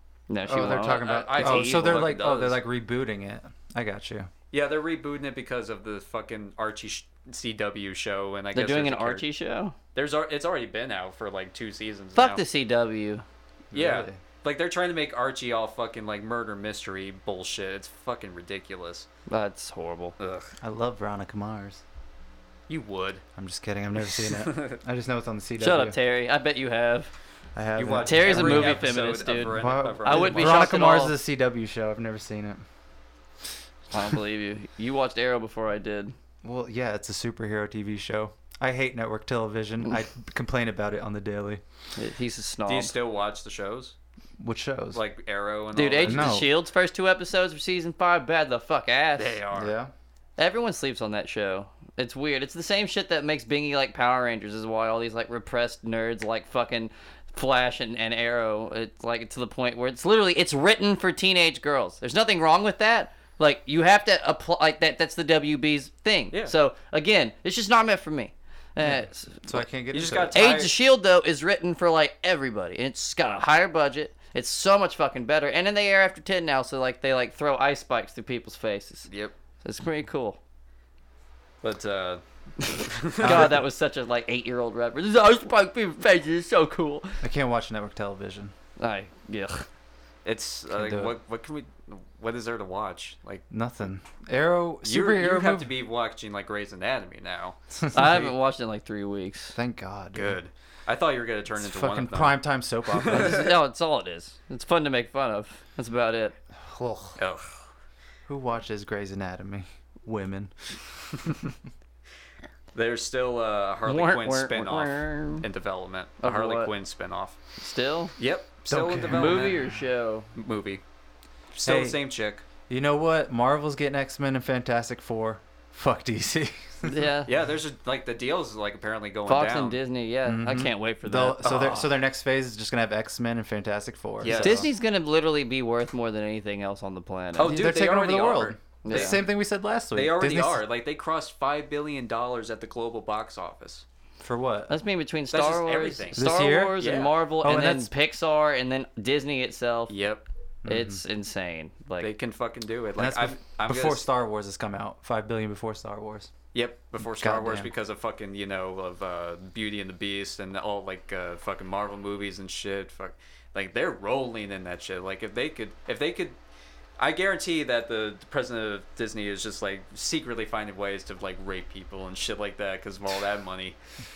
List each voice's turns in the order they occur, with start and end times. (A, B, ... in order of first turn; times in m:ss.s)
0:00.3-0:02.1 A
0:00.5-0:04.3 B
0:00.7-0:02.6 C
0:04.5-0:09.3 C
0:08.5-0:09.8 A
0:10.0-0:12.4 C
0:12.2-0:13.2 A
0:13.7-0:14.2 B
0:13.7-0:19.1 C
0:19.3-0:20.2 A
0:20.2-0:20.5 C
0:20.6-0:21.8 B
0:22.7-0:23.2 C
0:23.4-0:26.0 B
0:24.3-0:24.8 C
0:25.6-0:27.1 A
0:27.6-0:28.9 B
0:27.8-0:30.7 C
0:28.0-0:31.1 A
0:29.5-0:32.6 B
0:33.9-0:36.1 A
0:36.4-0:41.6 B
0:42.0-0:43.0 A
0:42.7-0:44.0 C
0:44.4-0:45.0 B
0:44.9-0:46.4 C
0:45.8-0:49.4 A
0:46.0-0:46.5 B
0:49.2-0:49.7 C
0:49.5-0:49.9 B
0:50.4-1:09.6 A
1:08.8-1:10.6 B
1:09.9-1:10.8 C
1:10.3-1:19.1 A
1:19.1-1:19.3 C
1:19.6-1:20.4 A
1:21.6-1:23.6 C
1:23.2-1:23.6 B
1:23.2-1:27.2 A
1:27.2-1:28.5 B
1:28.8-1:29.7 A
1:30.2-1:33.4 C
1:30.7-1:31.2 B
1:33.5-1:35.7 B
1:34.8-1:37.6 C
1:37.8-1:38.3 B
1:37.9-1:39.6 A
1:39.6-1:40.4 B
1:40.1-1:43.5 C
1:41.6-1:43.5 B
1:43.1-1:46.4 A
1:46.6-1:47.2 B
1:47.2-1:47.6 C
1:48.3-1:50.8 B
1:52.7-1:57.4 C
1:53.9-1:55.4 A
1:56.2-1:56.7 A
1:57.6-1:58.1 A
1:58.2-1:59.8 C
1:58.7-1:59.6 B
1:59.1-2:00.3 A
2:00.4-2:00.8 C
2:01.5-2:02.4 C
2:01.6-2:02.0 B
2:02.7-2:06.9 B
2:06.8-2:07.3 A
2:07.3-2:09.8 C
2:09.3-2:11.6 A
2:10.2-2:14.7 B
2:11.4-2:11.9 C
2:14.2-2:14.7 C
2:14.3-2:17.5 A
2:17.4-2:19.2 C
2:17.4-2:20.6 B
2:18.8-2:19.2 A
2:19.9-2:23.8 C
2:24.2-2:24.7 B
2:24.7-2:29.9 A
2:25.3-2:26.2 C
2:26.2-2:26.8 B
2:26.8-2:27.1 C
2:27.4-2:27.9 B
2:29.9-2:30.2 C
2:30.6-2:31.0 B
2:30.7-2:32.1 A
2:32.0-2:34.1 C
2:33.0-2:36.3 B
2:36.5-2:46.4 C
2:37.2-2:37.7 B
2:47.0-2:53.8 C